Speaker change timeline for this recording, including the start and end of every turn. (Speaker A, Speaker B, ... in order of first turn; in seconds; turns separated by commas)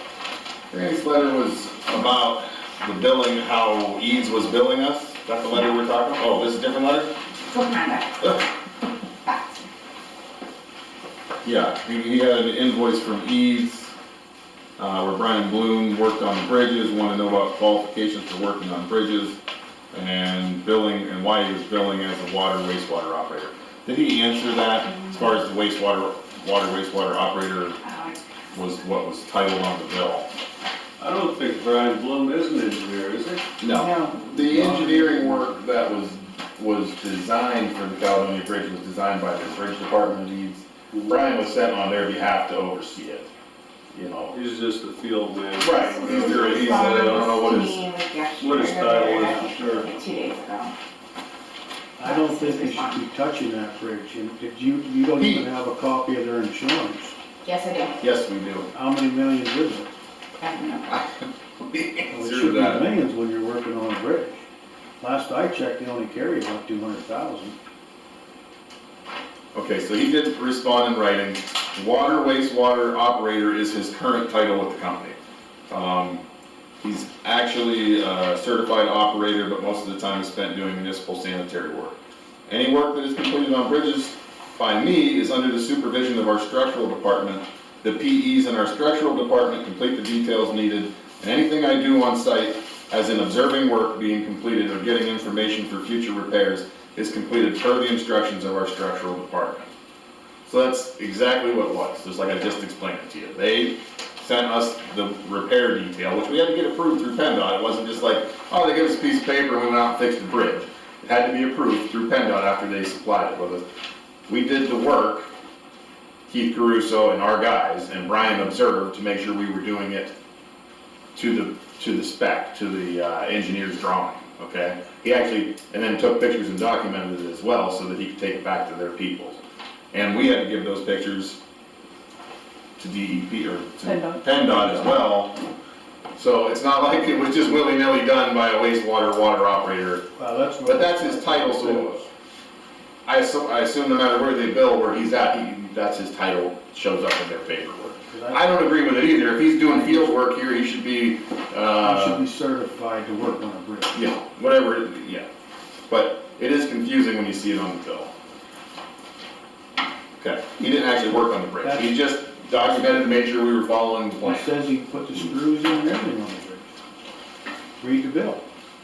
Speaker A: 0.7-7.1, Speaker B: 7.5-8.4, Speaker A: 11.4-13.9, Speaker A: 14.8-19.4, Speaker A: 19.9-27.8, Speaker B: 27.8-28.2, Speaker A: 28.5-30.3, Speaker C: 31.0-33.4, Speaker A: 33.6-43.3, Speaker D: 34.0-35.6, Speaker A: 43.9-44.3, Speaker C: 44.3-47.5, Speaker A: 45.6-47.9, Speaker B: 45.7-50.7, Speaker C: 48.4-49.9, Speaker D: 52.0-57.1, Speaker B: 52.0-53.0, Speaker A: 55.2-55.5, Speaker B: 57.4-58.0, Speaker A: 58.0-58.7, Speaker D: 58.7-59.9, Speaker B: 60.4-61.0, Speaker A: 61.7-62.9, Speaker D: 62.1-64.4, Speaker D: 65.0-67.5, Speaker A: 69.5-75.2, Speaker A: 75.7-76.2, Speaker A: 76.8-99.7, Speaker A: 100.4-113.6, Speaker A: 114.3-115.3, Speaker A: 116.3-120.1, Speaker A: 121.1-129.4, Speaker A: 129.9-131.4, Speaker A: 132.8-135.3, Speaker A: 136.1-140.0, Speaker D: 140.2-142.1, Speaker A: 140.6-142.0, Speaker A: 143.1-152.2, Speaker D: 147.9-148.8, Speaker D: 149.6-150.2, Speaker D: 151.8-154.0, Speaker A: 153.9-155.3, Speaker A: 155.9-158.1, Speaker A: 160.2-164.5, Speaker D: 161.6-163.2, Speaker D: 164.2-166.7, Speaker D: 167.8-168.4